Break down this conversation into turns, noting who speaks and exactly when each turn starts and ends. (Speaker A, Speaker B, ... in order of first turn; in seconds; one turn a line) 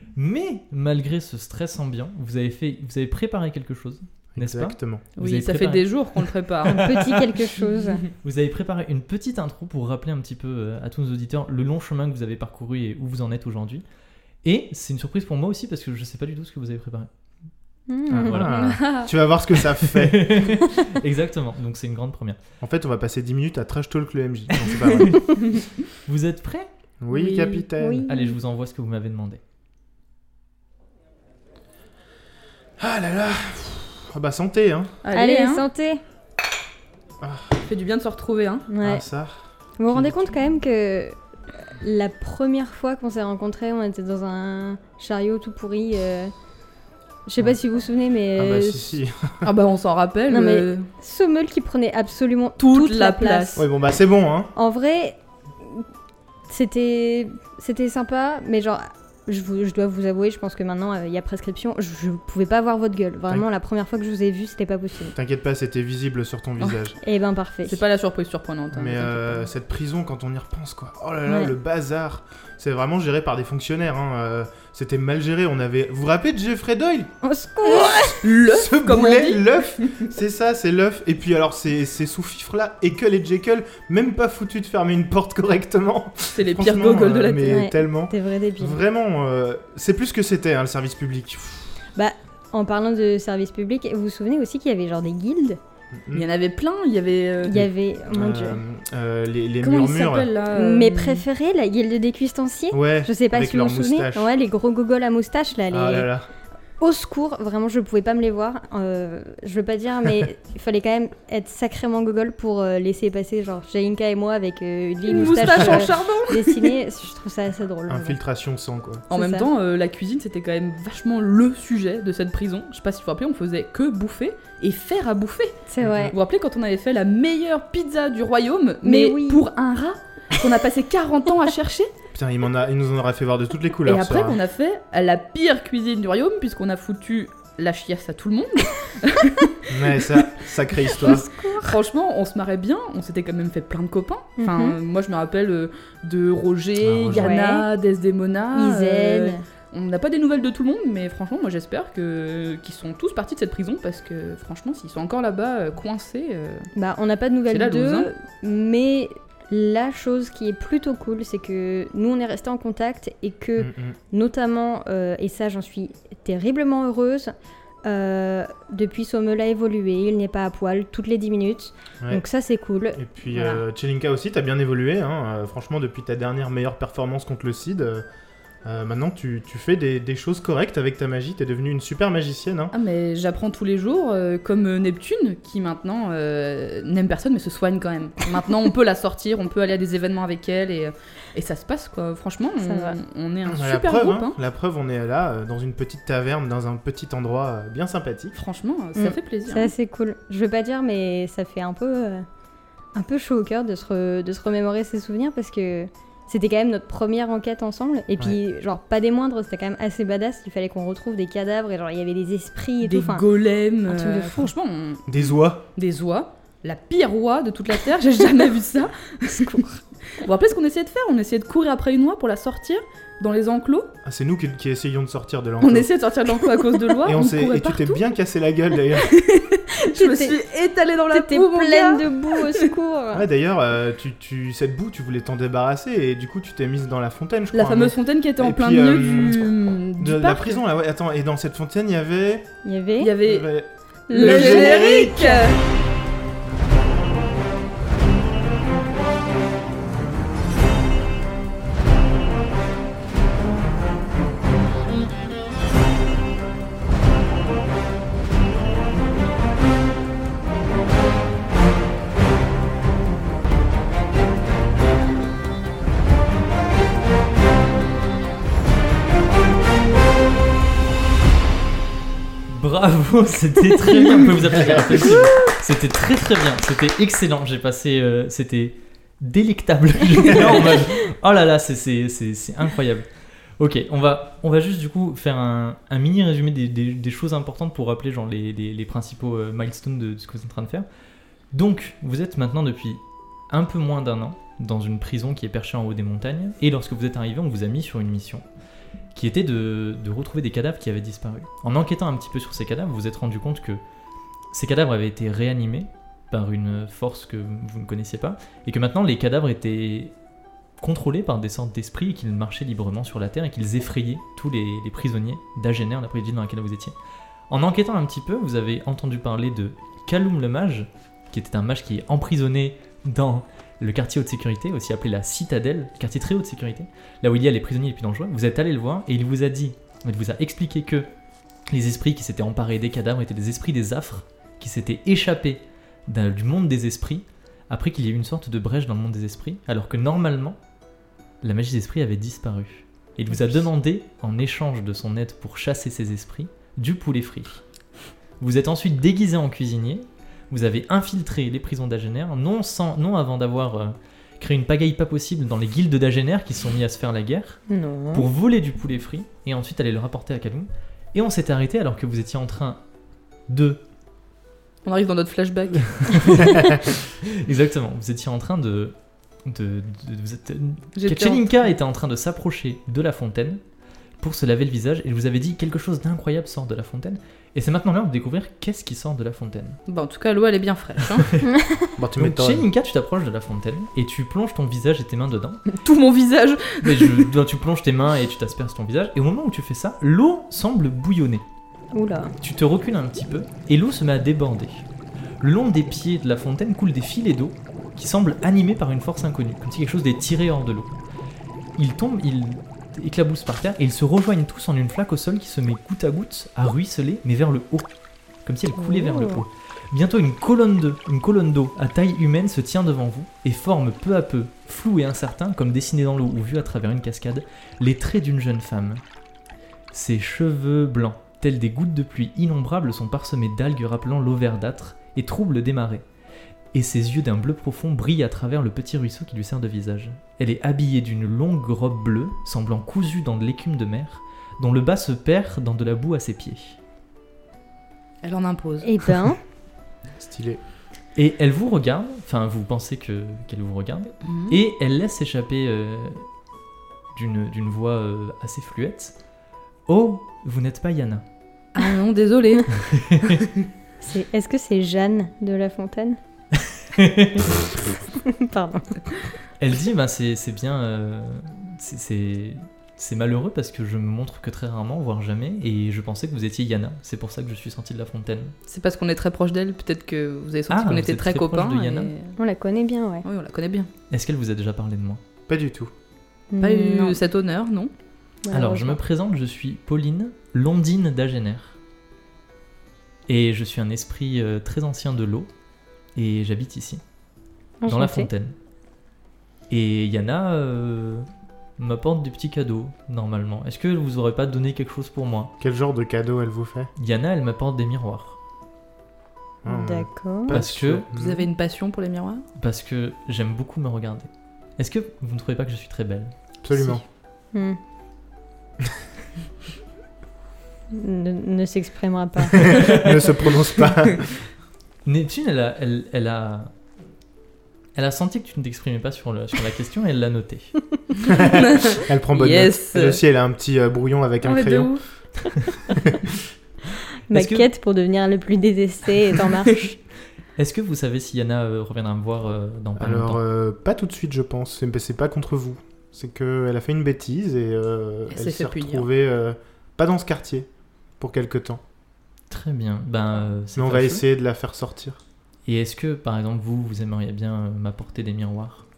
Speaker A: 0.1-5.9
Speaker B: 4.3-5.0
Speaker C: 5.2-7.0
Speaker D: 6.7-8.0
Speaker A: 6.7-7.2
Speaker C: 7.6-8.0
Speaker A: 8.2-13.8
Speaker A: 14.4-17.1
Speaker D: 17.9-18.5
Speaker B: 18.1-20.6
Speaker A: 18.2-18.5
Speaker C: 18.5-19.1
Speaker A: 19.8-22.4
Speaker B: 22.6-25.3
Speaker A: 24.8-25.4
Speaker A: 26.0-26.7
Speaker B: 27.0-28.1
Speaker C: 27.1-27.6
Speaker D: 27.3-28.4
Speaker A: 28.1-29.4
Speaker B: 32.8-34.9
Speaker C: 35.0-35.6
Speaker D: 35.1-36.0
Speaker B: 37.2-37.5
Speaker C: 37.6-38.7
Speaker D: 38.7-39.0
Speaker B: 38.8-40.2
Speaker D: 39.8-41.1
Speaker D: 41.7-46.3
Speaker D: 47.2-48.8
Speaker B: 48.3-49.5
Speaker C: 49.4-50.9
Speaker D: 50.3-53.6
Speaker C: 52.6-53.6
Speaker B: 53.5-54.5
Speaker D: 54.5-55.9
Speaker D: 56.5-65.2
Speaker B: 65.1-67.0
Speaker D: 67.0-67.8
Speaker C: 67.7-69.5
Speaker B: 68.7-77.1
Speaker D: 71.2-71.5
Speaker D: 77.2-78.2
Speaker B: 77.7-91.7
Speaker C: 77.8-80.1
Speaker C: 86.3-87.7
Speaker D: 87.4-88.8
Speaker D: 92.0-95.6
Speaker B: 95.9-96.2
Speaker C: 96.1-97.7
Speaker D: 97.5-98.6
Speaker B: 98.1-100.3
Speaker C: 99.6-101.2
Speaker D: 100.5-106.1
Speaker B: 102.7-104.3
Speaker B: 105.7-106.3
Speaker D: 106.8-118.2
Speaker C: 115.0-116.7
Speaker B: 115.2-115.8
Speaker B: 117.9-119.0
Speaker D: 119.1-119.5
Speaker C: 119.1-131.9
Speaker D: 125.7-126.1
Speaker B: 125.8-126.2
Speaker D: 128.8-129.4
Speaker B: 132.1-134.4
Speaker C: 133.8-140.3
Speaker B: 139.7-141.3
Speaker D: 141.0-141.8
Speaker C: 141.6-156.7
Speaker D: 144.4-144.8
Speaker B: 146.8-147.3
Speaker D: 147.1-147.7
Speaker D: 148.5-149.4
Speaker D: 156.7-167.3
Speaker C: 157.5-158.1
Speaker B: 163.6-164.0
Speaker D: 167.8-173.6
Speaker B: 172.9-178.0
Speaker B: 178.6-182.7
Speaker C: 182.7-194.3
Speaker D: 192.6-193.0
Speaker B: 193.5-198.3
Speaker C: 198.3-199.7
Speaker D: 199.0-202.2
Speaker D: 202.9-213.2
Speaker C: 212.8-215.2
Speaker D: 213.9-214.5
Speaker B: 215.1-215.6
Speaker C: 215.8-223.9
Speaker D: 219.4-219.7
Speaker B: 224.0-225.9
Speaker C: 225.6-228.0
Speaker B: 227.0-229.1
Speaker C: 228.9-232.7
Speaker D: 229.8-230.3
Speaker D: 231.1-233.2
Speaker B: 233.1-242.5
Speaker C: 237.5-240.6
Speaker D: 242.6-243.2
Speaker C: 243.0-243.5
Speaker B: 243.2-245.4
Speaker D: 244.1-245.5
Speaker C: 244.1-245.6
Speaker A: 272.5-283.1
Speaker B: 274.5-275.2
Speaker A: 283.6-290.9
Speaker A: 291.5-298.4
Speaker A: 299.1-303.8
Speaker A: 304.5-310.1
Speaker A: 310.8-316.9
Speaker A: 317.5-331.1
Speaker A: 331.7-340.6
Speaker A: 341.4-347.6
Speaker A: 348.4-362.8
Speaker D: 357.7-358.3
Speaker A: 363.5-363.8
Speaker C: 364.8-366.6
Speaker A: 366.0-373.6
Speaker C: 370.9-371.7
Speaker A: 374.2-379.8
Speaker C: 379.9-381.3
Speaker D: 381.4-381.9
Speaker B: 382.0-382.6
Speaker A: 382.2-385.6
Speaker C: 385.7-387.3
Speaker A: 386.8-391.4
Speaker D: 391.9-392.3
Speaker A: 392.4-394.9
Speaker A: 395.4-401.0
Speaker A: 401.8-407.9
Speaker A: 408.4-419.0
Speaker D: 408.8-409.4
Speaker A: 419.9-426.0
Speaker A: 426.7-436.8
Speaker C: 438.2-438.9
Speaker D: 438.8-439.4
Speaker B: 440.2-440.6
Speaker A: 441.1-446.3
Speaker C: 444.2-444.6
Speaker A: 447.1-449.1
Speaker A: 449.9-451.2
Speaker C: 451.7-453.5
Speaker A: 452.7-453.4
Speaker D: 454.0-456.2
Speaker A: 456.7-457.6
Speaker D: 458.2-459.2
Speaker A: 459.6-468.5
Speaker C: 468.7-472.4
Speaker A: 470.7-472.1
Speaker D: 472.4-473.2
Speaker C: 473.2-473.9
Speaker A: 474.1-475.2
Speaker B: 475.5-475.9
Speaker D: 476.5-477.2
Speaker C: 476.6-477.9
Speaker D: 478.4-479.0
Speaker A: 478.5-481.8
Speaker A: 483.3-485.5
Speaker A: 486.1-487.0
Speaker D: 487.8-488.3
Speaker A: 487.9-488.5
Speaker A: 489.7-491.3
Speaker A: 491.8-495.5
Speaker B: 495.6-496.9
Speaker A: 497.0-498.4
Speaker B: 499.6-501.4
Speaker D: 499.7-500.6
Speaker A: 500.5-501.0
Speaker C: 501.1-502.4
Speaker A: 502.6-506.3
Speaker B: 506.6-507.0
Speaker D: 507.5-507.8
Speaker D: 510.9-513.1
Speaker B: 512.5-514.4
Speaker A: 515.0-516.7
Speaker A: 517.9-520.7
Speaker B: 521.3-524.9
Speaker C: 521.3-523.2
Speaker C: 524.4-525.0
Speaker B: 525.9-526.2
Speaker A: 527.3-527.7
Speaker D: 527.3-530.0
Speaker A: 530.5-533.4
Speaker B: 533.0-540.7
Speaker C: 538.3-539.1
Speaker B: 541.2-541.8
Speaker A: 542.5-544.2
Speaker B: 543.8-545.2
Speaker A: 545.6-548.9